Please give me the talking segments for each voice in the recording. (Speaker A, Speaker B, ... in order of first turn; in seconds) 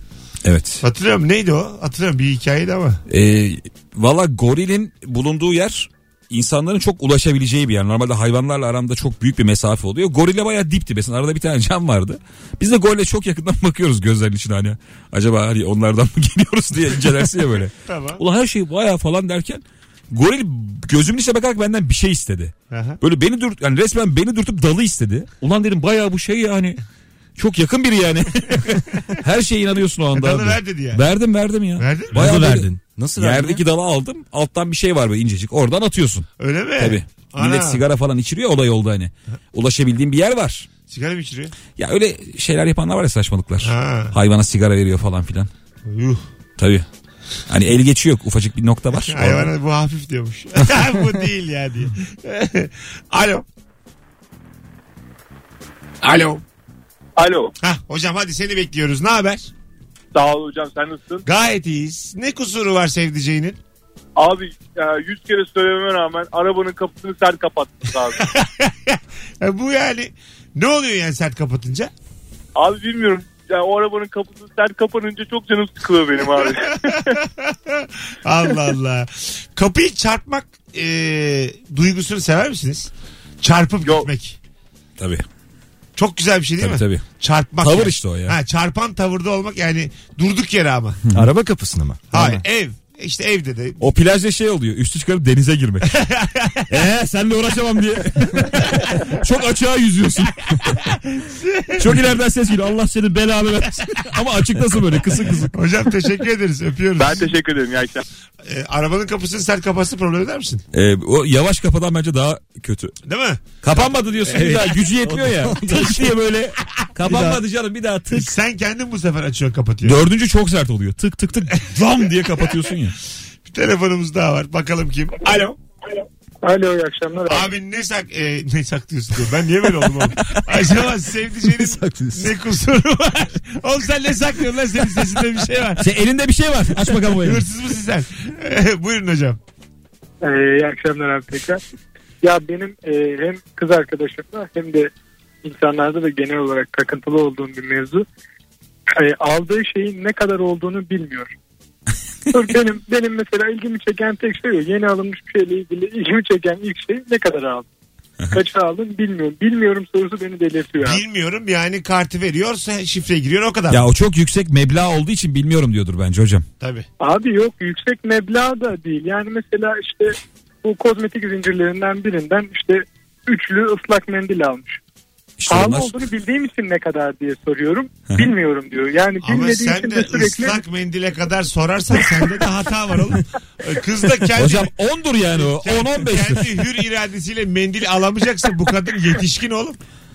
Speaker A: 0.4-0.8, 3.1-26.8, 27.4-40.7, 41.8-45.5, 46.6-46.9, 47.5-49.5, 85.0-85.2, 86.6-87.0, 87.6-88.3, 93.8-95.9, 96.7-100.8, 101.8-105.5, 110.7-113.0, 113.6-118.3, 119.8-123.0, 135.8-137.4, 163.7-166.4, 175.4-175.9, 184.3-186.5
Speaker B: 0.8-3.0, 17.8-18.2, 22.7-23.0, 30.1-31.1, 31.8-32.2, 36.4-37.8, 40.9-41.5, 43.6-44.1, 45.8-46.2, 48.9-53.5, 56.0-56.4, 57.6-59.5, 61.2-63.6, 68.1-71.9, 76.9-82.9, 83.4-84.4, 86.0-91.0, 92.1-93.8, 95.8-96.7, 100.9-102.0, 105.5-107.3, 108.4-110.6, 113.0-114.7, 118.1-120.1, 123.4-125.6, 127.2-135.9, 137.0-139.4, 160.8-163.9, 166.6-166.9, 179.2-184.7, 185.3-189.8
Speaker C: 32.1-33.6, 91.1-92.4, 114.3-116.1, 117.0-117.4, 131.6-132.3
Speaker D: 57.2-57.5, 60.1-61.2, 64.2-68.3, 72.5-77.2, 83.8-84.1, 107.3-107.8
Speaker E: 126.4-127.5, 140.2-141.6, 142.2-144.9, 145.4-148.0, 149.0-151.3, 152.3-157.7, 158.3-161.0, 167.0-174.8, 175.5-180.6